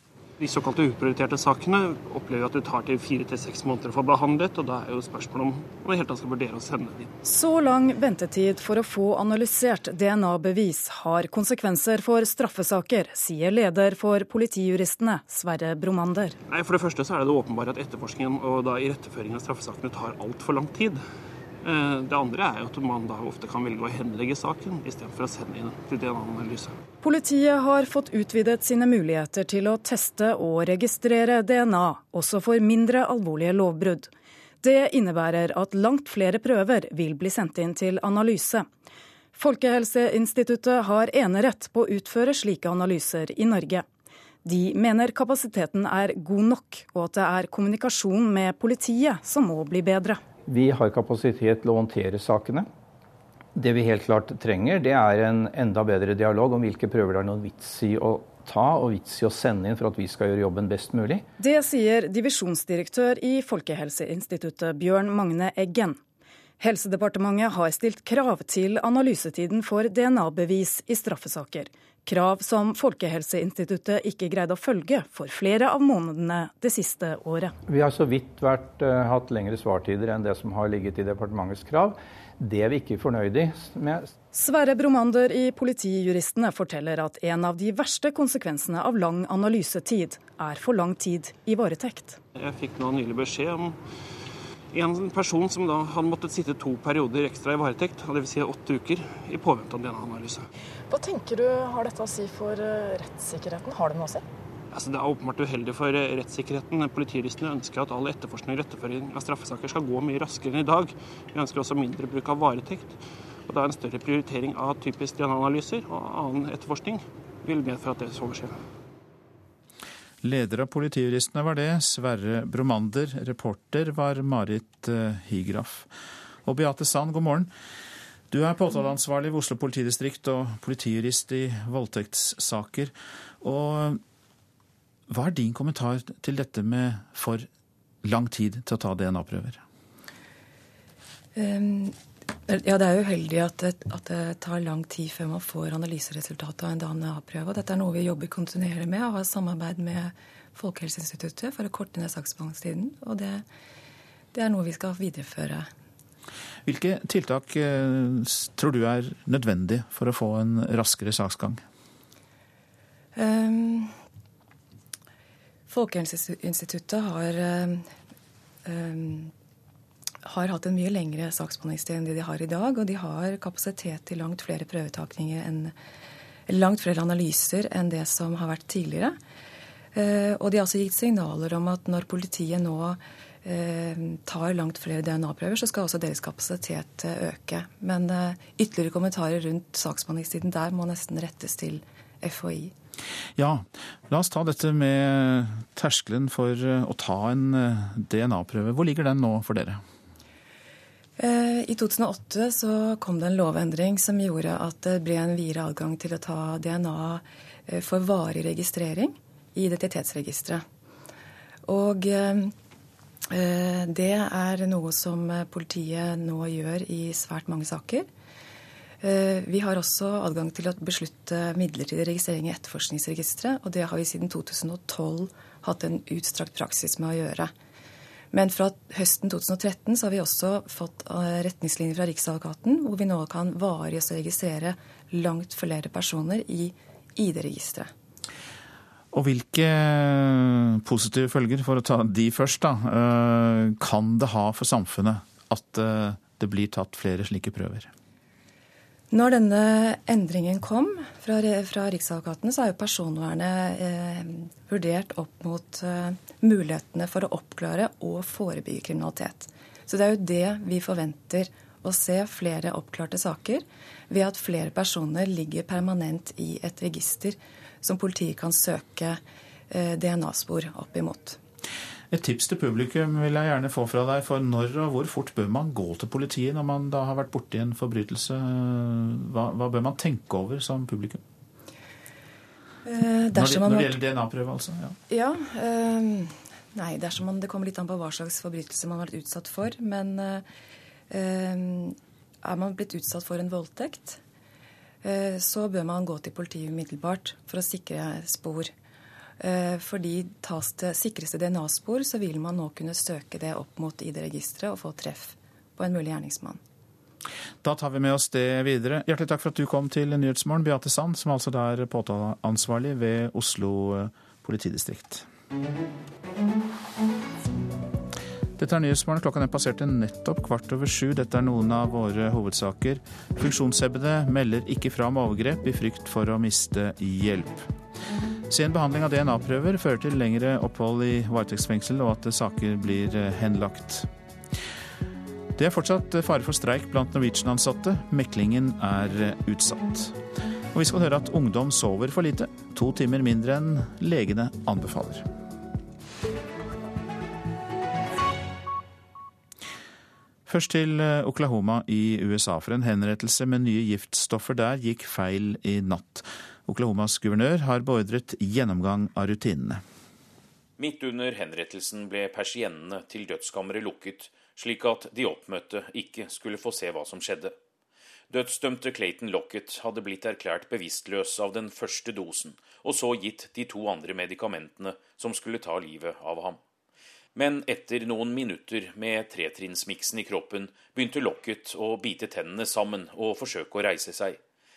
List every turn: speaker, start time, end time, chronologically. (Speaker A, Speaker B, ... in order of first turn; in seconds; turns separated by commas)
Speaker A: 0.4-7.1, Speaker B: 7.2-16.4, Speaker A: 16.5-21.0, Speaker A: 21.6-26.8, Speaker B: 27.0-34.1, Speaker B: 34.6-38.7, Speaker B: 39.3-43.8, Speaker B: 44.4-50.2, Speaker C: 50.5-52.7, Speaker C: 53.5-61.2, Speaker B: 61.4-66.0, Speaker B: 66.6-77.5, Speaker C: 77.7-84.1, Speaker B: 84.3-92.2, Speaker A: 92.3-93.8, Speaker A: 94.7-100.5, Speaker A: 104.7-113.0, Speaker A: 113.5-118.5, Speaker D: 120.2-125.9, Speaker D: 126.5-127.5, Speaker D: 128.3-134.0, Speaker D: 135.1-137.4, Speaker D: 138.0-139.6, Speaker E: 141.3-142.0, Speaker E: 142.5-153.5, Speaker E: 154.3-155.7, Speaker D: 156.7-161.6, Speaker E: 163.2-163.9, Speaker E: 165.7-167.9, Speaker E: 168.7-169.3, Speaker E: 170.2-175.8, Speaker E: 176.5-179.2, Speaker E: 179.9-192.7, Speaker D: 193.4-199.8, Speaker E: 201.2-210.7, Speaker E: 211.7-212.5, Speaker E: 213.3-218.1, Speaker E: 219.0-227.5, Speaker E: 228.3-237.9, Speaker D: 239.1-247.9, Speaker E: 249.1-271.4, Speaker D: 272.1-281.2, Speaker E: 282.8-284.0, Speaker D: 283.4-284.9, Speaker E: 285.1-290.5, Speaker E: 291.1-294.2, Speaker E: 295.0-298.7, Speaker E: 299.4-306.6, Speaker D: 307.6-315.2, Speaker D: 318.6-327.6, Speaker D: 328.5-334.1, Speaker D: 335.6-340.1, Speaker D: 340.7-345.2, Speaker D: 350.5-359.8, Speaker F: 360.8-367.5, Speaker F: 368.3-376.6, Speaker F: 377.3-384.4